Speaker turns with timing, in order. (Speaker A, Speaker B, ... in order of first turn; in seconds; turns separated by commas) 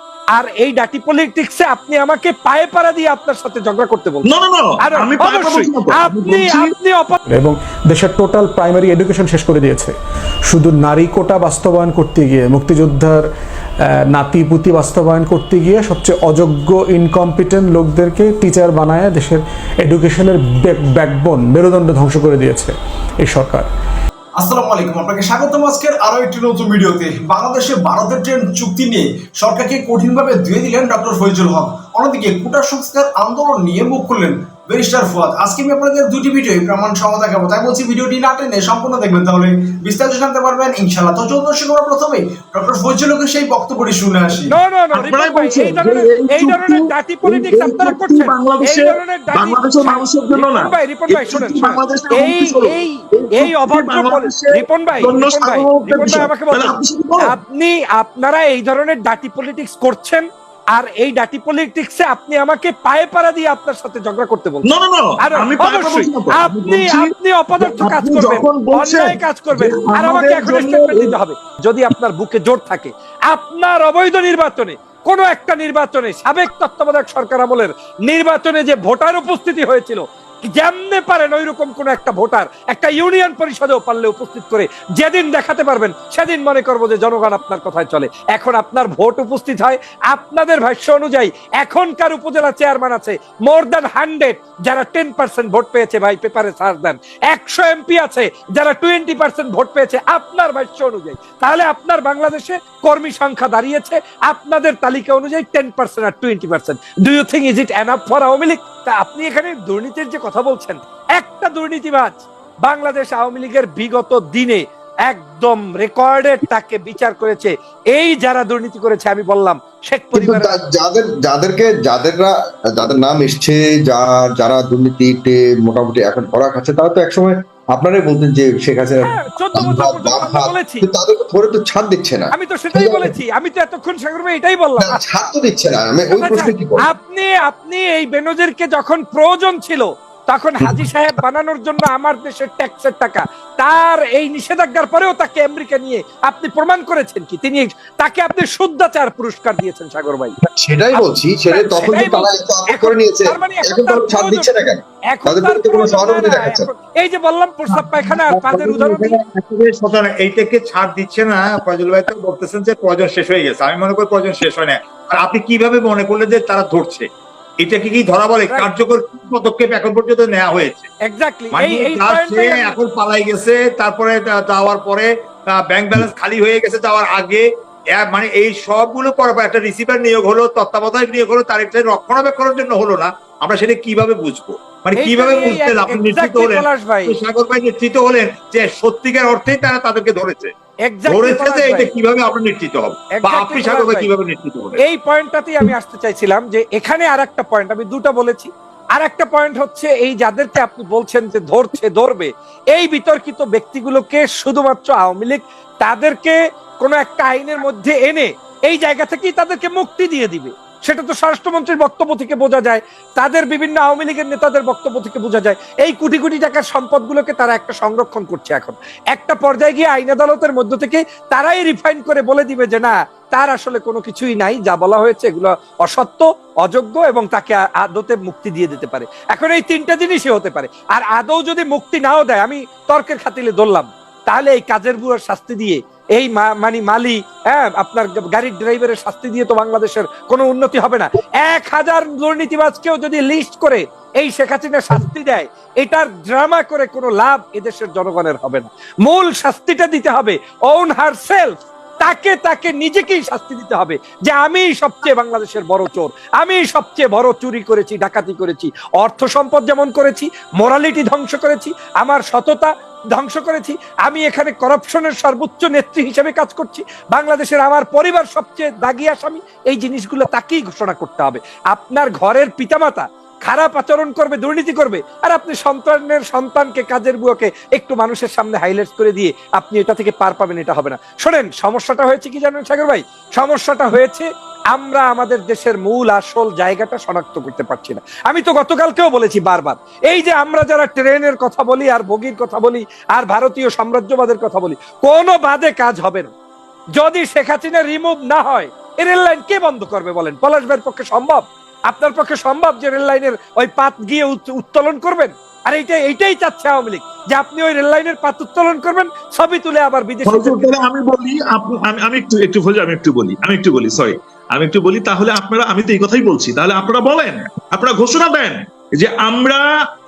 Speaker A: 0.3-4.3, Speaker B: 4.3-6.7, Speaker A: 4.8-7.2, Speaker C: 7.3-9.9, Speaker C: 10.5-13.2, Speaker C: 14.1-23.7, Speaker D: 24.4-44.5, Speaker A: 44.5-60.2, Speaker B: 44.9-57.3, Speaker A: 60.7-64.7, Speaker B: 64.7-71.1, Speaker A: 65.2-120.6, Speaker E: 120.1-133.1, Speaker A: 129.1-130.8, Speaker A: 132.3-135.3, Speaker E: 134.8-136.9, Speaker A: 136.1-150.3, Speaker E: 150.4-156.7, Speaker A: 150.9-159.2, Speaker F: 157.7-167.1, Speaker F: 167.6-170.9, Speaker A: 171.1-172.8, Speaker F: 171.5-190.5, Speaker A: 185.0-187.2, Speaker A: 190.9-191.9, Speaker F: 191.1-194.8, Speaker A: 193.2-194.1, Speaker A: 194.8-296.3, Speaker A: 297.0-310.7, Speaker B: 310.2-319.6